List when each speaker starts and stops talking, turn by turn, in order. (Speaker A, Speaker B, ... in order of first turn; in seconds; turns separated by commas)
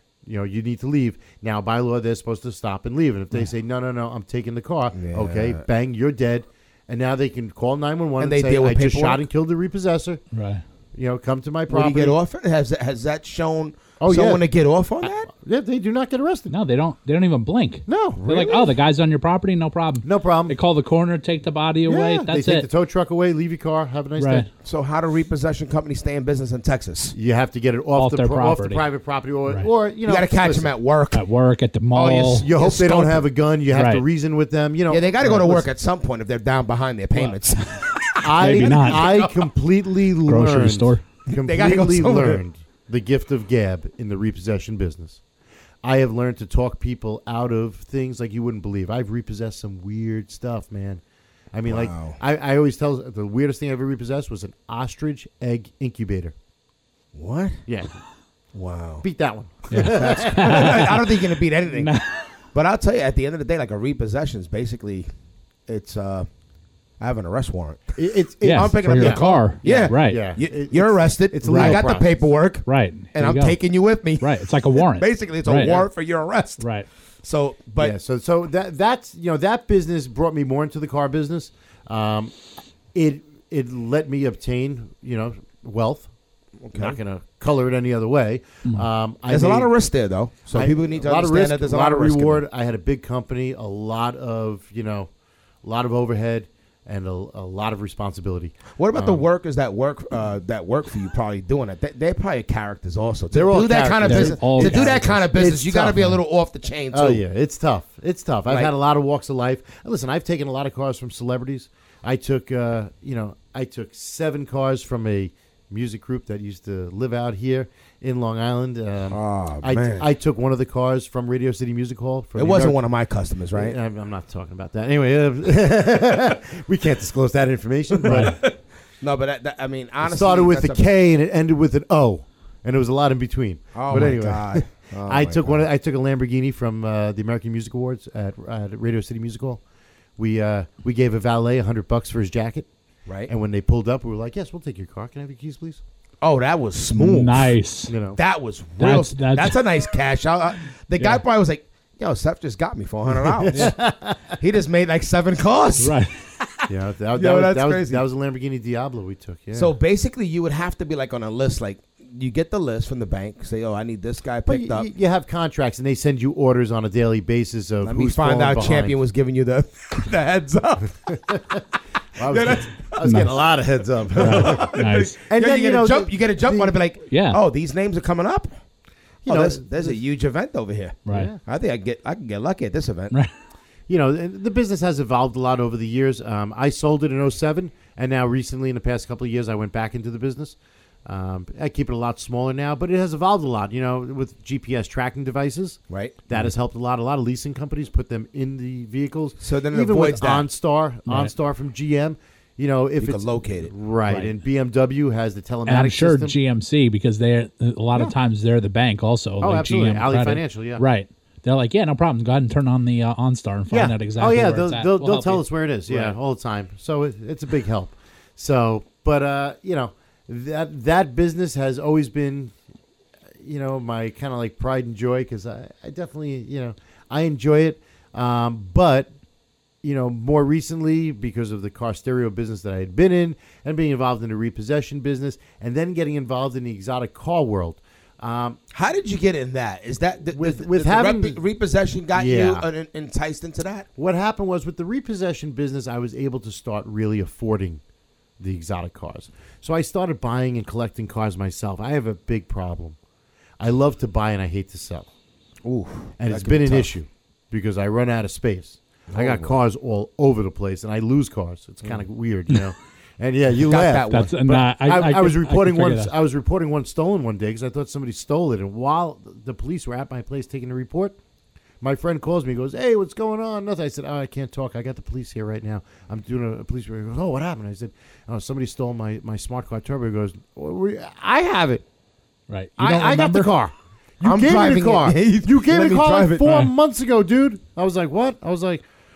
Speaker A: 0.2-10.2, Speaker B: 4.9-5.6, Speaker B: 8.2-9.2, Speaker C: 10.3-10.6, Speaker A: 10.9-12.2, Speaker B: 11.7-15.3, Speaker A: 14.0-14.4, Speaker A: 15.0-16.5, Speaker C: 16.5-22.7, Speaker A: 17.9-18.6, Speaker B: 18.3-18.6, Speaker A: 20.0-20.6, Speaker A: 21.9-24.5, Speaker C: 24.2-24.5, Speaker B: 24.6-27.1, Speaker A: 27.1-30.7, Speaker C: 27.9-28.8, Speaker B: 30.1-31.2, Speaker C: 31.1-32.5, Speaker B: 31.9-33.2, Speaker A: 32.2-35.7, Speaker C: 33.7-34.0, Speaker B: 34.9-39.5, Speaker C: 37.2-39.1, Speaker A: 38.2-45.2, Speaker C: 40.2-41.0, Speaker B: 41.3-42.4, Speaker A: 45.8-51.0, Speaker A: 51.5-56.3, Speaker B: 51.7-52.2, Speaker B: 57.1-57.6, Speaker A: 57.7-57.9, Speaker B: 58.5-59.0, Speaker A: 59.0-61.0, Speaker C: 59.7-61.1, Speaker B: 59.7-61.9, Speaker C: 61.7-62.2, Speaker B: 62.5-65.1, Speaker B: 65.7-66.3, Speaker B: 67.0-67.9, Speaker A: 68.0-72.2, Speaker C: 68.4-70.2, Speaker B: 68.5-76.6, Speaker C: 71.5-71.9, Speaker C: 72.7-73.6, Speaker C: 74.2-75.8, Speaker C: 76.6-76.9, Speaker B: 77.2-78.0, Speaker A: 77.8-82.4, Speaker A: 82.9-86.1, Speaker B: 86.6-87.0, Speaker A: 86.7-89.7, Speaker B: 89.3-92.4, Speaker A: 90.5-95.1, Speaker A: 95.6-99.3, Speaker B: 98.7-107.2, Speaker A: 103.3-106.2, Speaker C: 104.0-105.1, Speaker A: 106.9-122.8, Speaker B: 119.1-120.1, Speaker B: 122.3-123.8, Speaker A: 123.5-128.5, Speaker B: 128.1-130.8, Speaker C: 128.1-128.4, Speaker A: 130.0-139.6, Speaker B: 133.7-135.6, Speaker C: 133.9-134.2, Speaker A: 140.2-142.7, Speaker B: 143.1-143.3, Speaker A: 143.3-145.8, Speaker B: 146.2-147.5, Speaker C: 146.9-147.9, Speaker A: 147.9-148.2, Speaker B: 148.2-153.8, Speaker C: 148.8-149.6, Speaker A: 153.1-154.3, Speaker B: 154.4-156.0, Speaker C: 155.8-156.2, Speaker A: 156.7-159.7, Speaker B: 157.1-158.0, Speaker B: 159.5-164.8, Speaker A: 164.5-169.0, Speaker B: 167.8-171.6, Speaker A: 171.1-171.6, Speaker A: 172.2-176.8, Speaker B: 172.2-173.0, Speaker C: 173.0-173.4, Speaker B: 174.1-178.5, Speaker C: 174.2-175.2, Speaker C: 177.1-177.4, Speaker A: 179.2-180.0, Speaker B: 179.2-183.1, Speaker C: 181.1-181.3, Speaker A: 181.1-181.4, Speaker A: 183.9-206.3, Speaker B: 195.9-196.2, Speaker B: 199.4-200.5, Speaker C: 201.1-201.3, Speaker B: 203.0-204.3, Speaker C: 205.7-216.2, Speaker A: 209.4-210.8, Speaker A: 213.7-222.5, Speaker A: 223.4-229.1, Speaker A: 229.8-238.6, Speaker B: 238.7-243.9, Speaker A: 240.3-241.4, Speaker A: 242.1-242.7, Speaker A: 244.0-247.8, Speaker A: 248.4-253.0, Speaker A: 253.6-255.1, Speaker B: 255.6-256.9, Speaker A: 256.2-271.2, Speaker B: 259.1-259.5, Speaker B: 263.6-264.3, Speaker C: 264.1-266.1, Speaker A: 271.8-281.8, Speaker C: 282.5-283.5, Speaker A: 282.8-288.9, Speaker B: 284.2-286.6